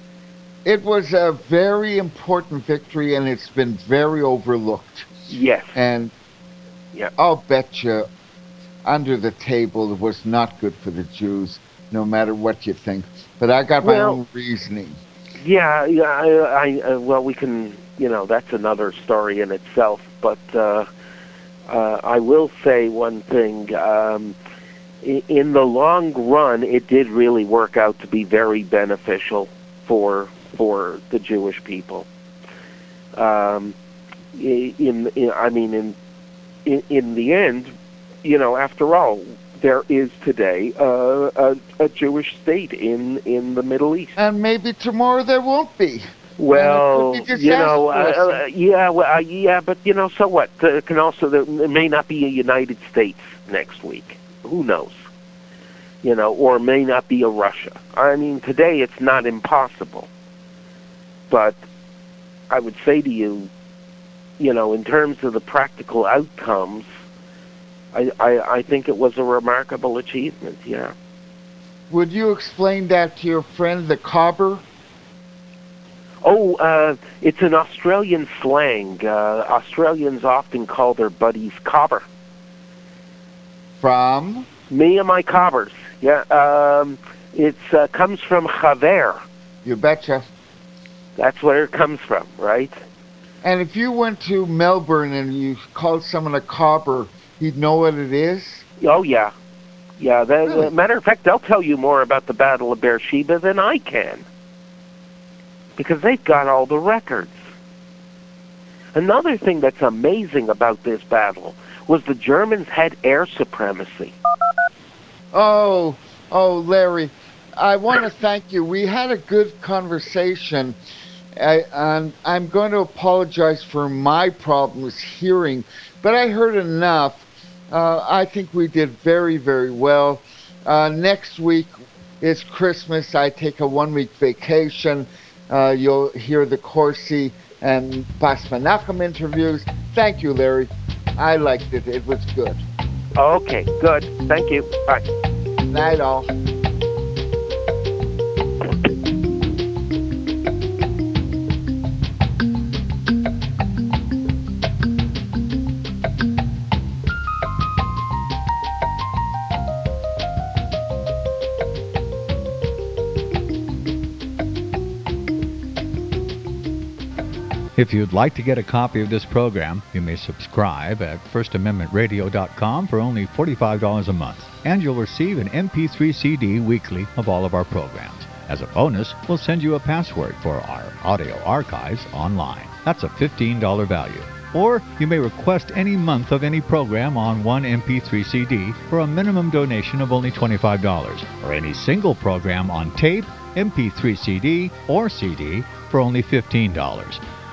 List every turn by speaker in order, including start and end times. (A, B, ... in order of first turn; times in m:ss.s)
0:00.6-0:05.1 A
0:05.3-0:05.8 B
0:05.7-0:06.1 A
0:07.2-0:08.0 A
0:08.8-0:15.0 A
0:13.8-0:14.2 B
0:15.4-0:20.9 B
0:21.7-0:24.3 B
0:25.0-0:32.1 B
0:33.2-0:33.8 B
0:34.3-0:36.0 B
0:36.6-0:44.2 B
0:44.2-0:48.4 A
0:46.4-0:55.1 B
0:56.0-1:00.1 B
1:01.3-1:01.6 B
1:02.5-1:03.5 B
1:04.4-1:06.9 B
1:07.9-1:10.9 B
1:11.9-1:14.6 A
1:16.2-1:22.0 B
1:23.8-1:24.5 A
1:24.7-1:29.2 B
1:29.6-1:30.2 A
1:31.2-1:32.8 B
1:33.4-1:38.6 A
1:38.8-1:39.3 B
1:40.0-1:44.2 B
1:40.4-1:40.7 A
1:45.8-1:47.4 B
1:48.9-1:54.2 B
1:55.3-2:00.8 A
2:01.3-2:22.6 A
2:23.2-2:25.0 B
2:25.7-2:26.3 A
2:47.8-3:17.2 C